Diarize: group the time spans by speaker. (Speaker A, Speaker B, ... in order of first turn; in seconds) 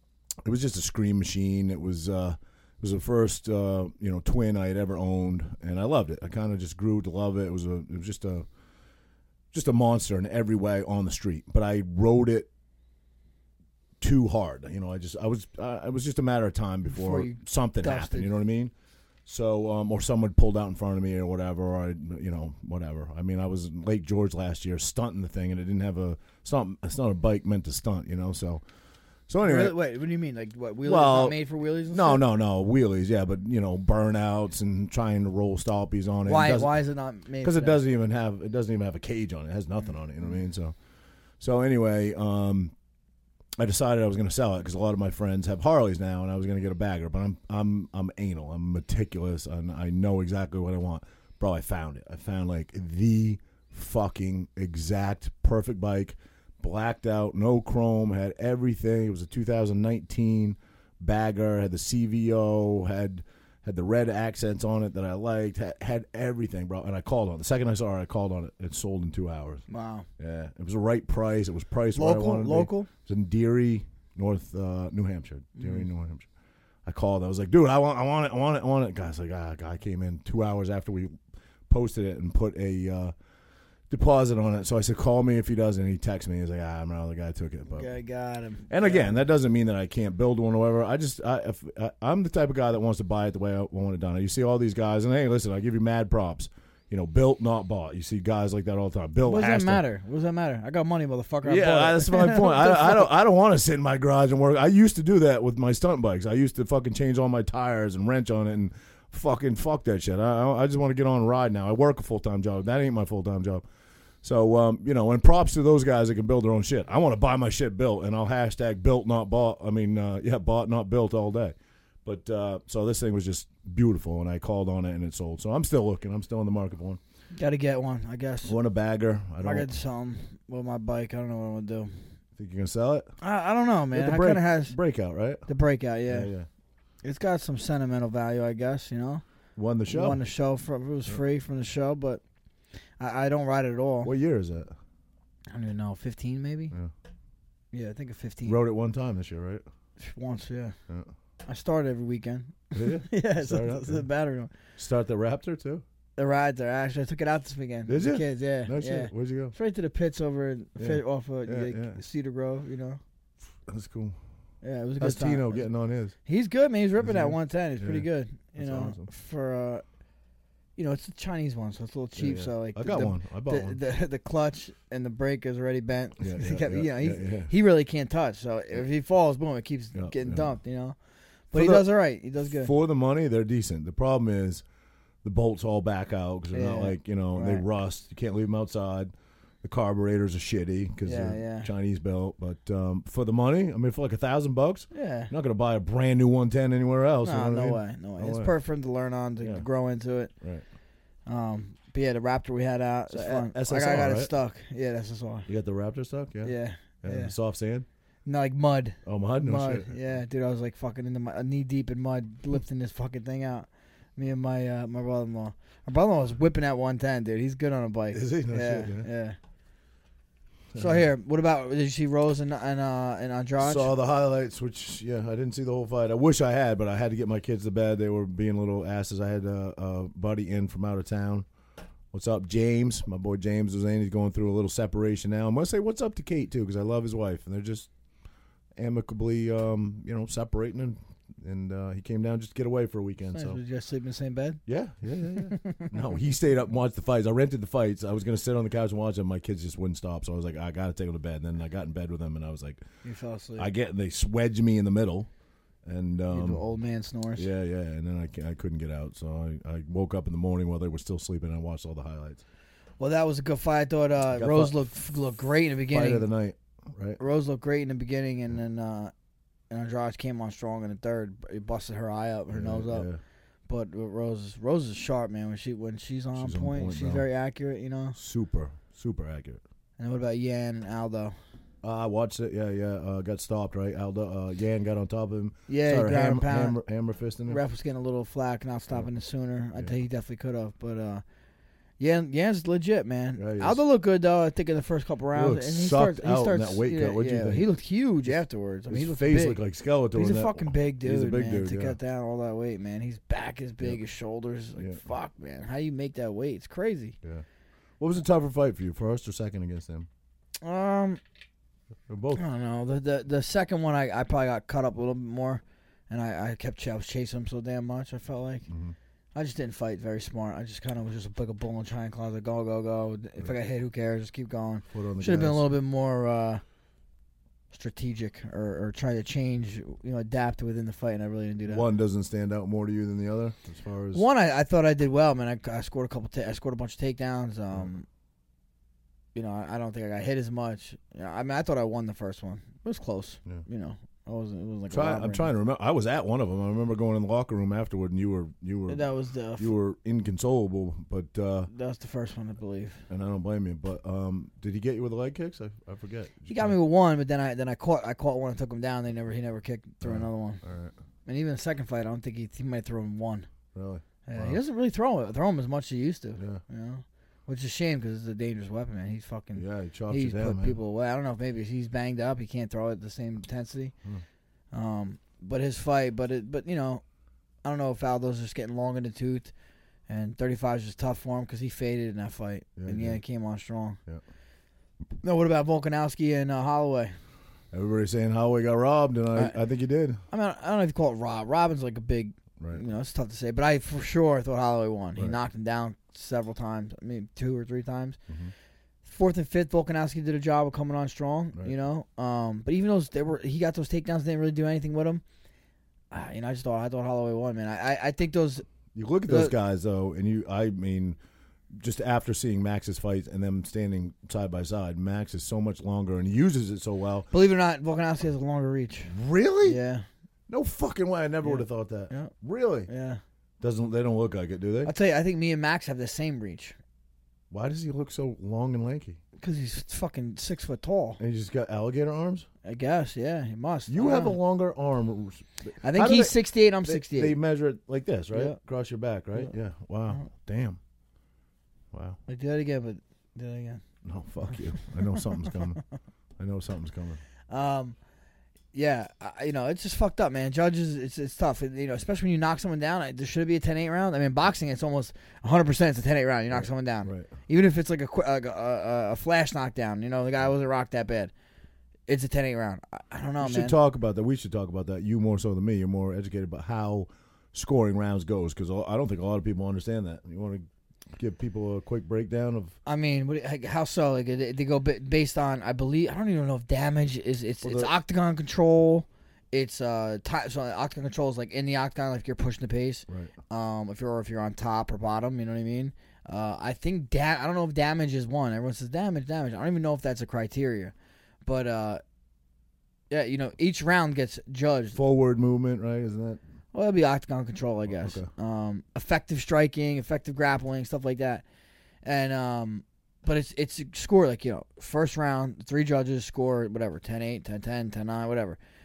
Speaker A: 0.4-8.4, 9.5-12.5, 14.0-18.7, 19.2-28.6, 29.3-29.8, 30.8-31.4, 31.9-36.8, 37.4-40.7, 41.4-42.7, 43.6-69.6, 70.2-76.3, 76.8-81.1, 81.7-83.1, 83.9-87.9, 88.7-99.8, 101.4-113.6, 114.2-127.0, 128.4-129.7, 132.3-133.1, 133.9-135.4, 136.1-136.5, 139.6-140.2, 144.0-144.7, 148.4-149.6, 152.7-154.1, 154.8-155.8, 157.9-159.5, 160.8-162.0, 163.7-164.2, 165.0-166.1, 167.0-169.1, 172.2-173.8, 176.2-177.5, 179.9-180.5, 181.5-181.9, 182.4-184.6, 185.2-189.1, 189.6-198.5, 199.4-199.7, 203.1-204.3, 205.5-207.8, 209.0-210.0, 218.1-219.1, 220.7-221.0, 223.6-231.4, 232.1-237.9, 238.8-243.6, 244.7-252.8, 253.6-255.3, 255.8-256.6, 257.4-262.4, 264.3-264.8, 265.9-267.2, 272.5-273.2, 276.4-277.2, 278.1-279.6, 281.8-287.6, 293.4-293.8, 295.3-297.6, 298.9-302.0, 304.8-305.0, 308.0-310.1, 312.1-312.4, 318.7-318.9, 324.9-325.7, 331.7-334.2, 344.9-349.0, 349.6-351.7, 353.1-356.7, 360.0-360.9, 363.7-364.6, 366.4-366.6, 369.5-370.8, 382.8-383.2, 387.7-390.2, 408.9-411.2, 411.7-417.3, 419.1-419.8, 420.5-422.9, 423.6-424.9, 427.5-429.2, 431.2-432.5, 433.9-440.8, 441.9-442.2, 444.0-445.8, 446.4-447.2, 456.5-457.3, 463.4-470.6, 471.1-472.8, 477.6-477.9, 483.1-483.3, 494.9-496.4, 497.9-498.3
Speaker B: 16.9-18.3, 29.4-32.2, 36.2-37.8, 69.7-70.0, 71.9-72.9, 87.7-89.2, 99.2-103.1, 127.3-128.6, 129.4-131.9, 133.2-134.8, 135.5-136.3, 137.0-139.2, 139.9-142.2, 143.0-144.1, 145.5-146.7, 147.7-148.6, 150.0-150.7, 151.4-154.5, 156.2-163.0, 164.6-165.7, 166.2-169.8, 170.8-180.9, 181.5-182.7, 186.5-187.6, 191.0-191.7, 194.9-195.3, 197.2-200.3, 201.3-205.5, 206.4-207.3, 208.2-219.3, 220.7-223.9, 243.3-244.6, 245.4-245.9, 253.0-253.7, 256.3-257.5, 263.0-266.3, 267.2-269.1, 269.7-273.1, 273.7-278.2, 280.0-281.3, 285.7-286.8, 287.5-291.2, 292.0-299.6, 300.1-307.1, 310.6-311.2, 312.3-318.7, 319.3-326.6, 327.7-331.9, 334.1-338.1, 339.3-345.5, 348.9-349.7, 351.7-353.0, 356.5-360.6, 361.2-363.5, 364.2-373.9, 374.7-377.0, 377.6-379.5, 380.1-384.0, 385.2-387.1, 390.3-398.2, 399.0-405.2, 406.1-408.6, 409.2-409.5, 417.3-420.0, 421.4-422.3, 422.9-423.2, 424.8-426.8, 429.4-431.2, 432.6-434.4, 435.8-437.4, 438.3-438.6, 442.3-443.8, 447.5-447.9, 448.7-461.3, 462.1-463.8, 472.9-490.9, 491.4-492.0, 493.1-495.0, 496.7-501.4, 502.0-508.6